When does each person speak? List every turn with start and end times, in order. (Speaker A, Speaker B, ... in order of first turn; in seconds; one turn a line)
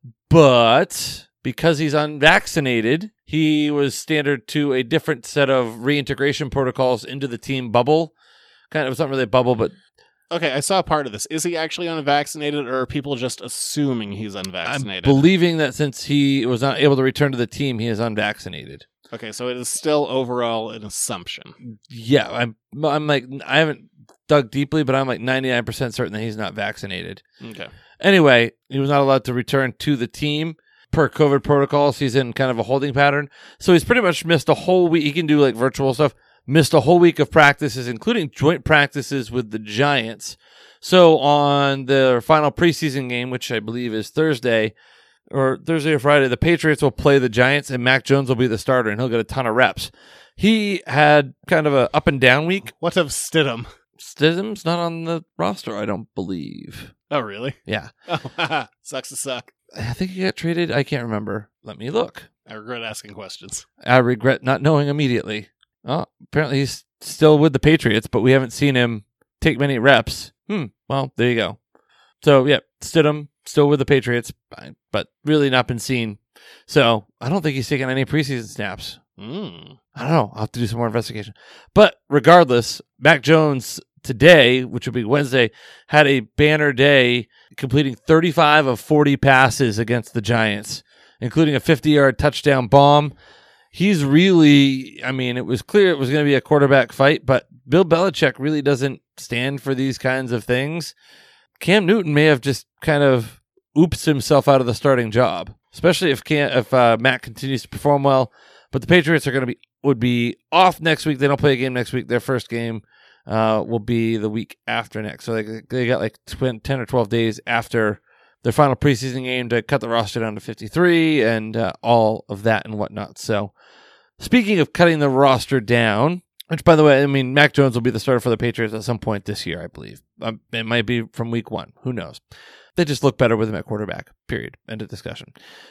Speaker A: 0.3-8.1
Speaker A: 8.7-9.8
Speaker B: 10.3-15.3
Speaker A: 14.6-18.9
Speaker B: 19.1-21.6
Speaker A: 21.6-27.2
Speaker B: 27.4-27.7
Speaker A: 28.0-44.7
Speaker A: 45.3-52.7
Speaker B: 52.7-53.7
Speaker A: 54.0-56.9
Speaker B: 57.1-59.5
Speaker A: 59.7-62.3
Speaker B: 62.5-63.6
Speaker A: 63.8-71.6
Speaker A: 72.2-79.0
Speaker B: 79.2-79.8
Speaker A: 79.9-93.1
Speaker A: 93.7-100.9
Speaker A: 101.6-123.5
Speaker A: 124.2-132.2
Speaker A: 132.8-135.3